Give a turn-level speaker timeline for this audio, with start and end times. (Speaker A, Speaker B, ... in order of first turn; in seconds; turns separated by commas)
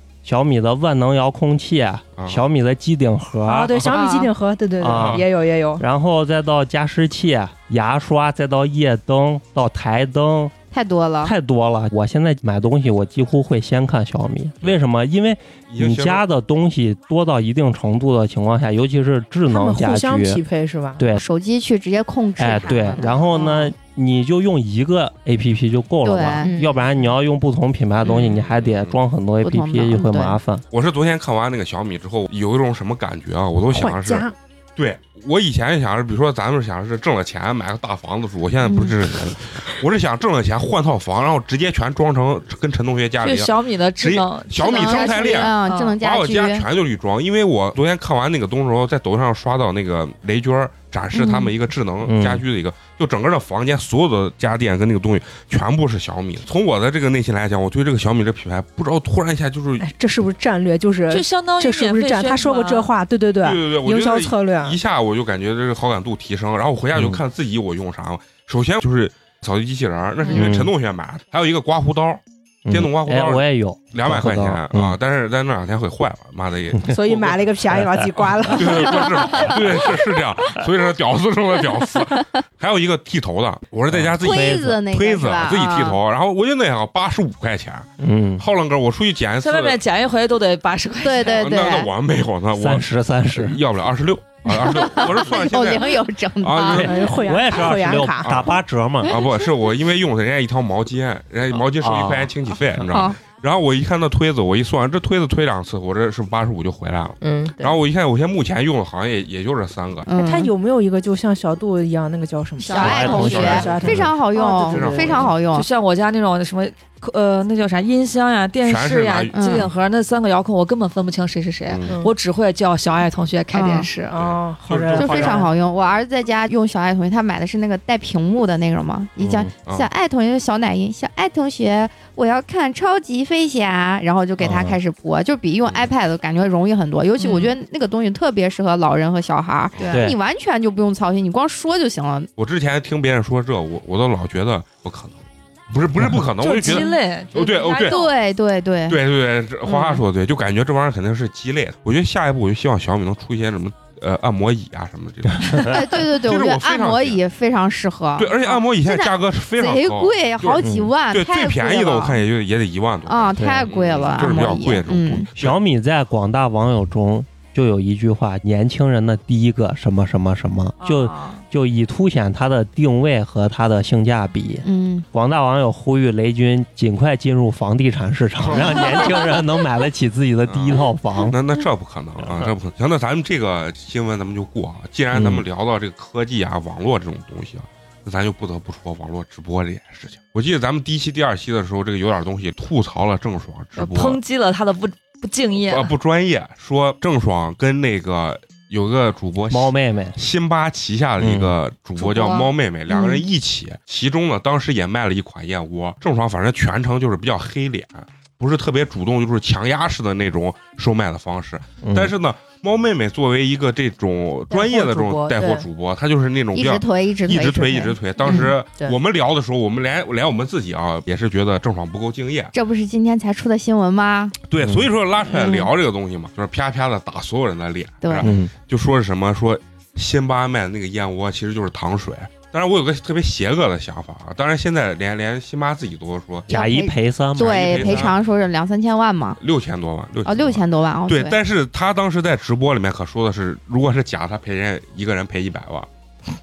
Speaker A: 0.2-3.8, Speaker B: 2.1-2.4, Speaker C: 3.4-5.8, Speaker B: 3.7-4.0, Speaker A: 4.8-5.2, Speaker B: 4.9-5.2, Speaker A: 5.8-10.5, Speaker D: 10.7-11.3, Speaker A: 11.2-20.4, Speaker B: 15.7-16.2, Speaker C: 19.5-21.1, Speaker A: 21.0-21.2, Speaker D: 21.1-23.7, Speaker A: 22.4-30.6, Speaker C: 22.7-23.2, Speaker D: 26.0-26.5, Speaker C: 26.4-27.0, Speaker B: 28.0-29.0, Speaker D: 29.4-30.4, Speaker B: 30.7-59.8, Speaker C: 33.7-34.3, Speaker D: 38.6-38.9, Speaker E: 43.2-46.0, Speaker D: 44.7-46.6, Speaker D: 51.1-51.5, Speaker A: 52.0-52.4, Speaker C: 59.8-64.8, Speaker E: 61.1-62.9, Speaker B: 63.4-77.5, Speaker A: 66.9-67.2, Speaker A: 70.3-70.7, Speaker A: 72.7-75.0, Speaker C: 76.9-79.3, Speaker A: 77.7-78.6, Speaker B: 78.5-89.8, Speaker A: 83.9-84.8, Speaker D: 84.2-86.0, Speaker A: 88.0-88.4, Speaker E: 89.4-91.4, Speaker D: 91.0-91.9, Speaker B: 91.2-97.1, Speaker A: 92.6-93.6, Speaker D: 94.5-96.9, Speaker A: 96.7-99.1, Speaker C: 96.8-98.5, Speaker B: 98.2-110.1, Speaker D: 99.1-99.4, Speaker A: 101.7-102.8, Speaker D: 102.9-103.2, Speaker C: 107.2-107.7, Speaker D: 110.1-110.5, Speaker C: 110.1-115.3, Speaker E: 112.6-113.8, Speaker D: 112.6-115.7, Speaker A: 112.8-114.1, Speaker B: 113.3-113.8, Speaker B: 114.7-115.3, Speaker E: 115.5-124.1, Speaker B: 118.6-119.7, Speaker D: 119.3-119.7, Speaker B: 121.7-122.0, Speaker C: 121.9-122.1, Speaker D: 123.5-123.9, Speaker C: 124.1-125.5, Speaker B: 124.1-125.5, Speaker D: 125.0-142.3, Speaker B: 129.2-129.9, Speaker A: 134.4-134.8, Speaker E: 137.2-137.5, Speaker B: 139.8-140.0, Speaker A: 139.9-140.2, Speaker B: 142.4-148.0, Speaker E: 146.4-148.2, Speaker D: 147.8-149.0, Speaker B: 148.9-157.2, Speaker D: 149.6-150.0, Speaker A: 155.3-155.7, Speaker D: 155.6-162.2, Speaker B: 158.2-165.6, Speaker A: 160.6-160.9, Speaker D: 163.1-165.3, Speaker A: 163.3-163.7, Speaker A: 165.3-181.4, Speaker E: 170.8-171.4, Speaker D: 174.6-175.1, Speaker B: 178.4-178.8, Speaker B: 180.4-194.2, Speaker A: 182.2-182.5, Speaker A: 185.1-185.4, Speaker E: 193.8-195.9, Speaker B: 195.6-222.5, Speaker A: 199.5-200.2, Speaker A: 201.2-201.6, Speaker E: 202.0-202.5, Speaker D: 202.9-203.2, Speaker A: 211.8-212.1, Speaker C: 214.5-215.4, Speaker D: 215.3-215.6, Speaker D: 216.5-218.5, Speaker C: 218.2-218.9, Speaker D: 222.5-224.3, Speaker B: 224.5-236.5, Speaker A: 224.6-224.9, Speaker D: 225.2-225.7, Speaker D: 228.0-228.3, Speaker A: 228.2-228.5, Speaker A: 236.5-238.1, Speaker D: 236.5-239.4, Speaker B: 237.3-238.2, Speaker B: 239.4-245.9, Speaker D: 240.2-241.4